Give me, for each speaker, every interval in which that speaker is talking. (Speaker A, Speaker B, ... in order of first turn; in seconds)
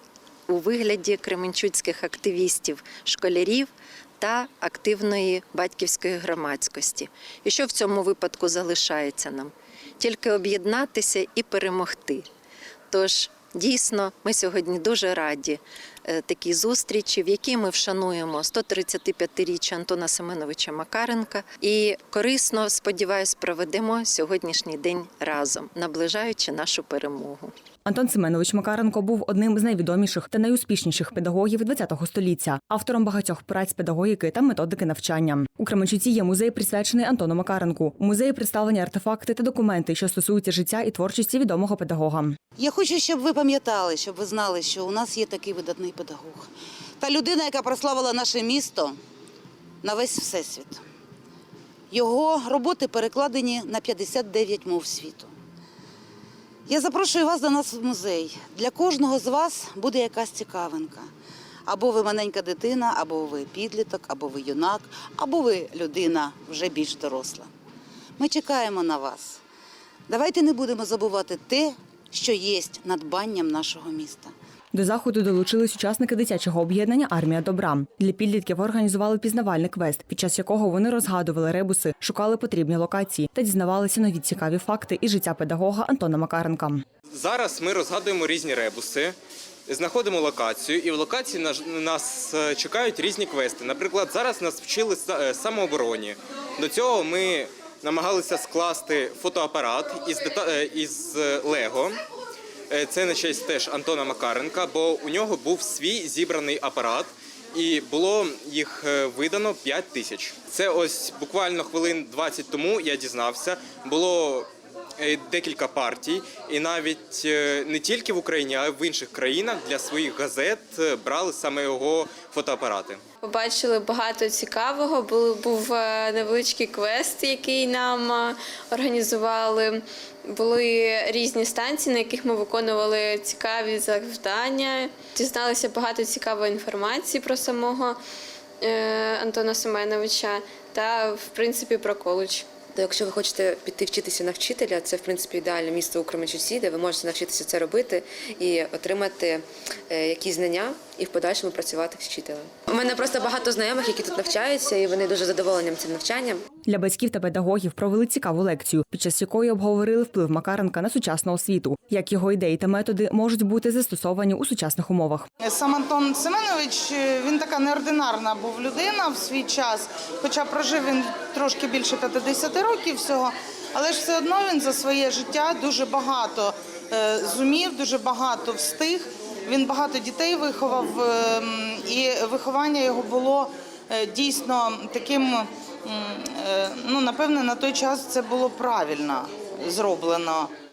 Speaker A: 0.5-12.3, 12.9-27.5
Speaker B: 27.9-42.4, 74.7-86.8, 156.7-165.3
Speaker C: 42.6-49.0, 49.8-50.8, 51.9-55.3, 56.7-61.1, 61.7-67.5, 68.2-69.4, 70.1-74.3
Speaker D: 87.1-89.2, 89.7-102.0, 102.7-114.5, 115.0-123.0
Speaker E: 123.3-129.7, 130.3-137.9, 138.6-142.4
Speaker F: 142.8-156.4
Speaker G: 165.5-190.5